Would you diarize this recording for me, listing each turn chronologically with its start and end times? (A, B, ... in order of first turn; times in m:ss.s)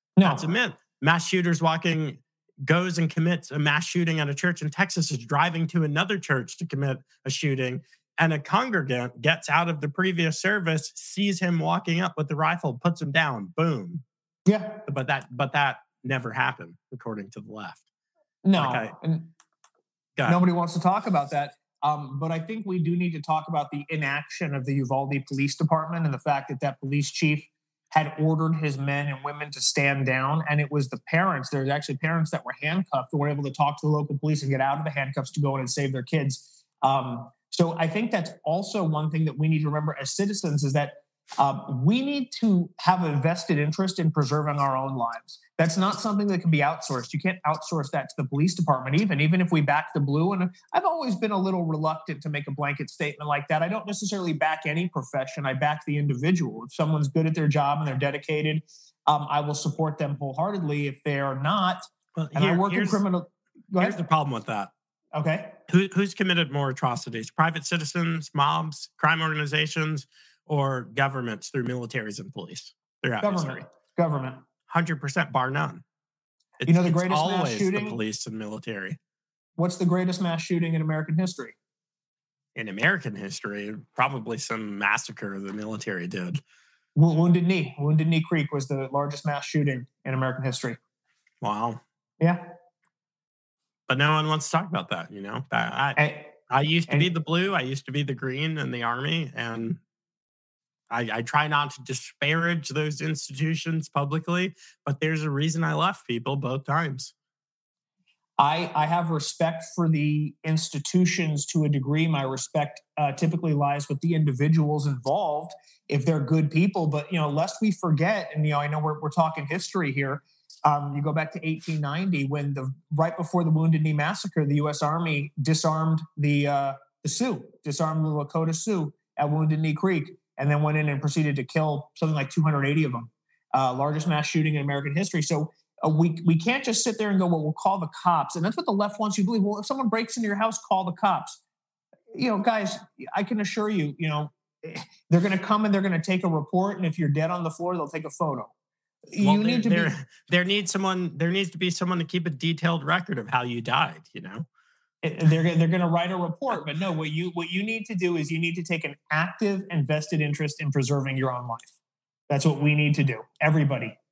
0:00.2-0:00.5 A
0:00.2-0:14.0 B
0:14.4-0:14.8 A
0:14.9-0:17.8 B
0:18.4-0:19.3 A
0:18.6-0:18.9 B
0:20.3-1:04.0 A
1:02.2-1:03.0 B
1:03.8-1:04.7 B
1:05.1-1:05.6 A
1:05.7-1:13.6 B
1:13.2-1:14.4 A
1:14.7-1:15.8 B
1:16.6-1:19.0 B
1:16.6-1:18.0 A
1:19.6-1:21.6 A
1:22.5-1:26.4 B
1:27.0-1:30.8 A
1:31.4-1:31.8 B
1:33.9-1:39.8 B
1:36.0-1:36.3 A
1:40.9-1:47.1 B
1:48.4-2:21.4 A
2:22.1-2:28.5 A
2:29.1-2:29.9 A
2:29.2-2:34.5 B
2:35.0-2:41.7 A
2:42.3-2:44.0 A